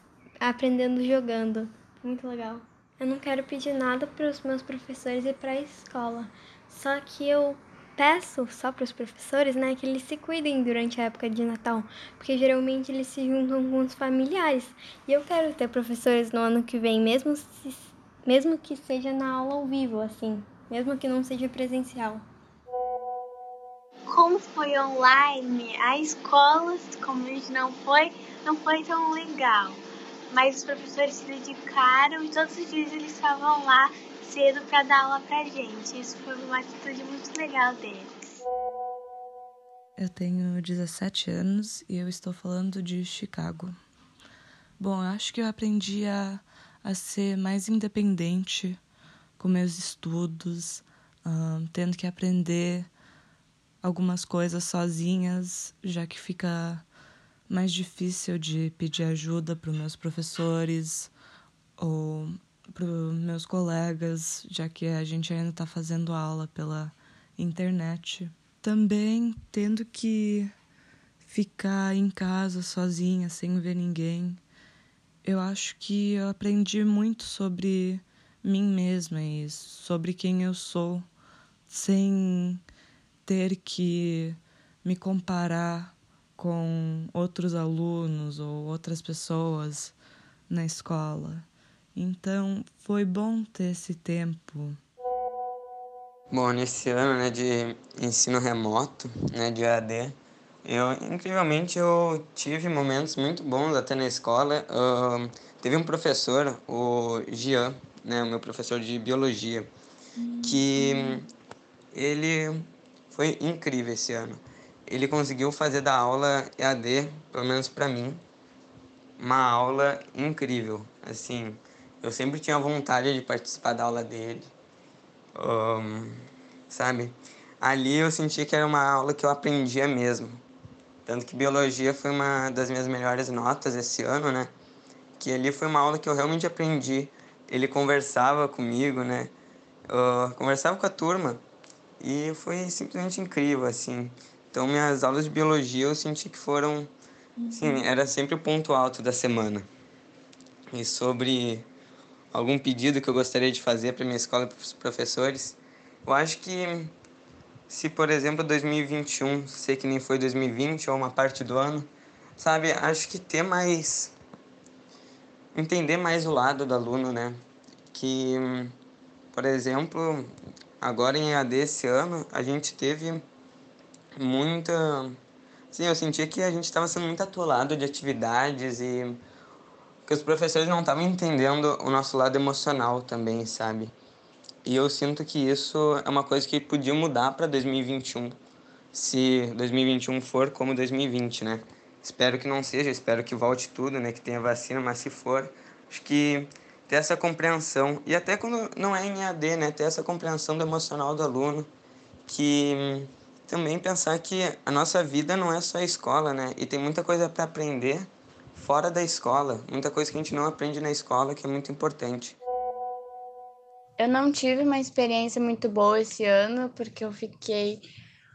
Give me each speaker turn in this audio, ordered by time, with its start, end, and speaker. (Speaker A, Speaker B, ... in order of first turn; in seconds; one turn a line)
Speaker A: 0.4-22.2
Speaker B: 24.1-29.8
Speaker B: 30.3-38.1
Speaker C: 40.0-43.8
Speaker C: 44.8-48.8
Speaker C: 49.4-52.9
Speaker C: 53.8-56.9
Speaker C: 57.5-61.1
Speaker C: 61.8-70.5
Speaker C: 71.2-74.4
Speaker C: 75.2-81.1
Speaker C: 81.7-82.6
Speaker C: 83.2-89.9
Speaker C: 90.5-94.8
Speaker D: 96.3-109.7
Speaker C: 110.2-111.2
Speaker D: 110.4-111.3
Speaker D: 111.9-118.2
Speaker D: 119.2-124.5
Speaker D: 125.3-130.4
Speaker D: 131.1-134.5
Speaker D: 135.2-139.3
Speaker D: 139.9-141.4
Speaker D: 142.0-146.9
Speaker C: 147.4-147.8
Speaker D: 147.5-149.7
Speaker D: 150.7-151.7
Speaker D: 152.3-156.9
Speaker D: 157.7-164.1
Speaker D: 165.5-167.4
Speaker D: 167.9-168.7
Speaker D: 169.3-173.2
Speaker D: 174.2-175.2
Speaker D: 175.7-179.2
Speaker D: 180.1-183.9
Speaker D: 184.6-188.3
Speaker D: 188.9-201.7
Speaker D: 202.2-212.4
Speaker E: 214.0-217.9